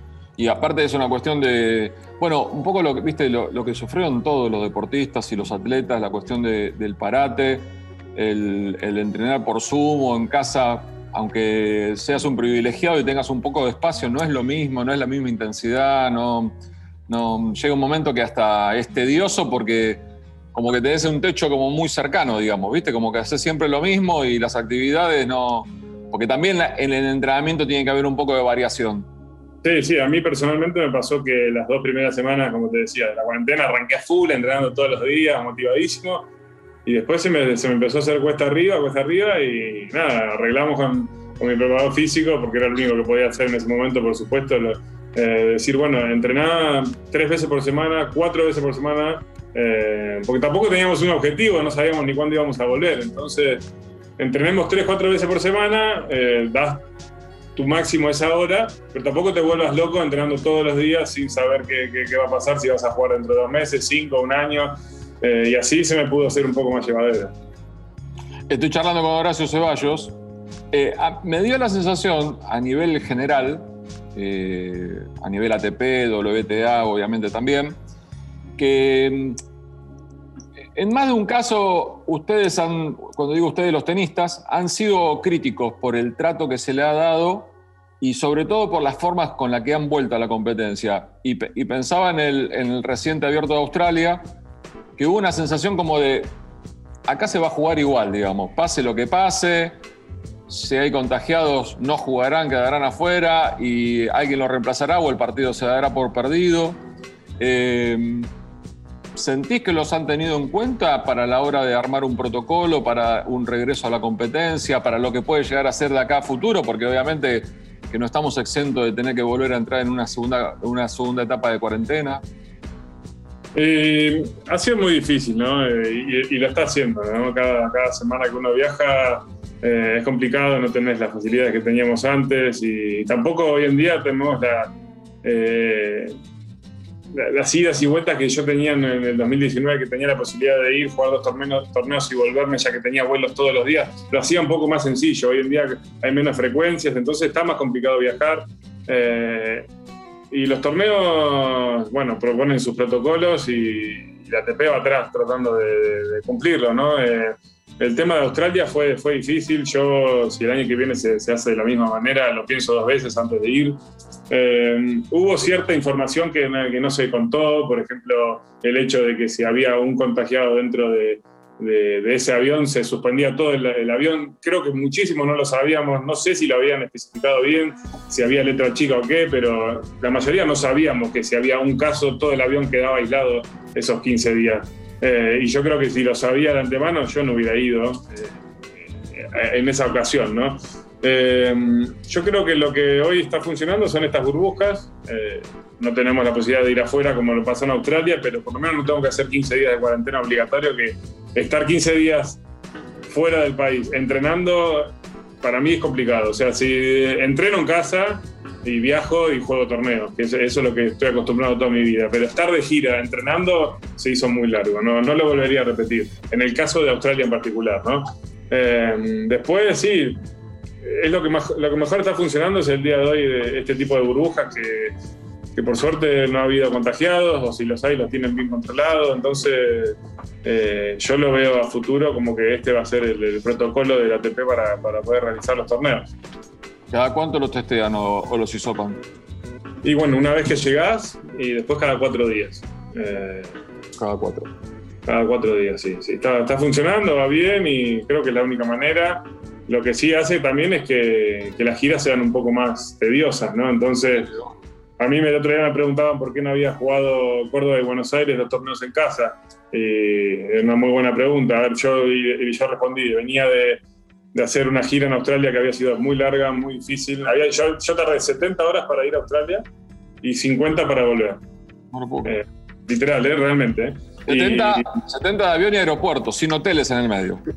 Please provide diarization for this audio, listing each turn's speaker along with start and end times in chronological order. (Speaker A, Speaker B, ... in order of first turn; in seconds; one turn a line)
Speaker A: 0.3-16.6
Speaker A: 17.1-29.1
Speaker B: 29.6-36.3
Speaker B: 36.9-53.7
Speaker B: 54.2-56.8
Speaker B: 57.5-67.3
Speaker A: 68.5-70.2
Speaker A: 70.7-77.8
Speaker A: 78.6-79.4
Speaker A: 80.7-94.2
Speaker A: 95.0-96.3
Speaker A: 97.0-99.8
Speaker A: 100.5-106.8
Speaker A: 107.4-108.3
Speaker A: 109.1-122.2
Speaker B: 123.5-136.2
Speaker B: 137.1-149.7
Speaker B: 150.3-163.8
Speaker B: 164.3-188.4
Speaker B: 189.0-202.4
Speaker B: 203.1-220.2
Speaker B: 220.8-224.9
Speaker B: 225.6-236.1
Speaker A: 236.9-239.0
Speaker B: 239.8-243.5
Speaker A: 244.0-244.5
Speaker B: 245.1-254.3
Speaker B: 255.0-263.8
Speaker B: 264.3-269.6
Speaker B: 270.2-271.4
Speaker A: 271.9-272.3
Speaker B: 272.2-274.9
Speaker A: 274.2-277.4